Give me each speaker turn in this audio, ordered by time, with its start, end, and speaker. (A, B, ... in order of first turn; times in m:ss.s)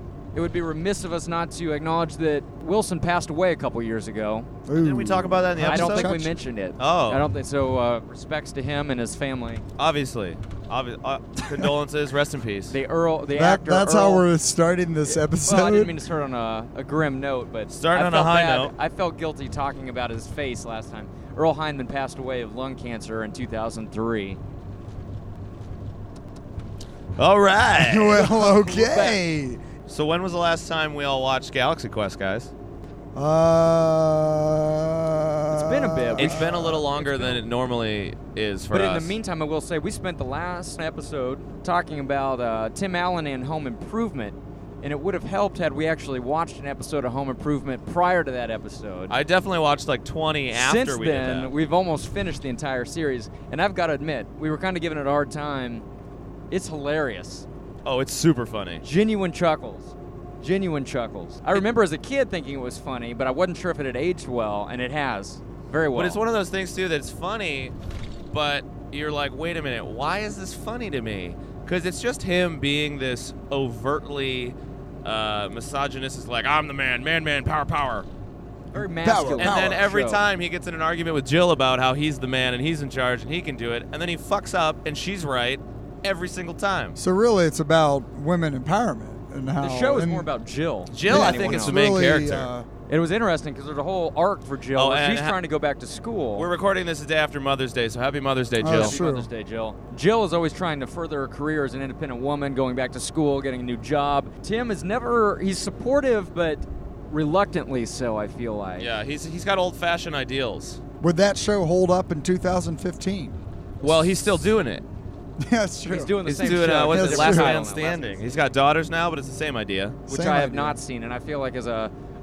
0:00.3-0:04.5 A
0:04.7-0:06.3 B
0:04.8-0:06.1 C
0:05.6-0:09.6 A
0:06.8-0:07.2 C
0:09.8-0:12.7 C
0:12.7-0:14.2 A
0:13.3-0:16.0 B
0:15.2-0:24.4 A
0:17.7-0:18.7 C
0:27.2-0:28.3 C
0:27.8-0:29.6 B
0:28.2-0:29.2 A
0:29.9-0:32.5 C
0:33.1-0:36.8 B
0:35.5-0:37.4 A
0:36.2-0:39.2 C
0:38.7-0:49.2 A
0:49.1-0:51.5 C
0:50.5-0:55.8 A
0:56.5-0:57.5 A
0:57.8-0:58.8 C
0:58.8-1:06.2 A
1:05.9-1:07.7 C
1:08.3-1:18.0 C
1:18.7-1:20.2 A
1:18.8-1:19.8 B
1:19.4-1:27.0 C
1:27.0-1:30.3 B
1:29.6-1:31.8 A
1:30.9-1:32.5 C
1:31.0-1:32.7 B
1:32.9-1:36.5 A
1:34.8-1:35.4 C
1:36.4-1:39.0 C
1:38.6-1:39.3 B
1:38.7-1:48.9 A
1:48.8-1:50.8 C
1:51.0-1:53.4 B
1:53.8-1:54.8 C
1:55.4-1:57.6 B
1:55.9-1:58.2 A
1:56.2-2:00.0 C
2:00.1-2:00.8 B
2:00.1-2:01.9 A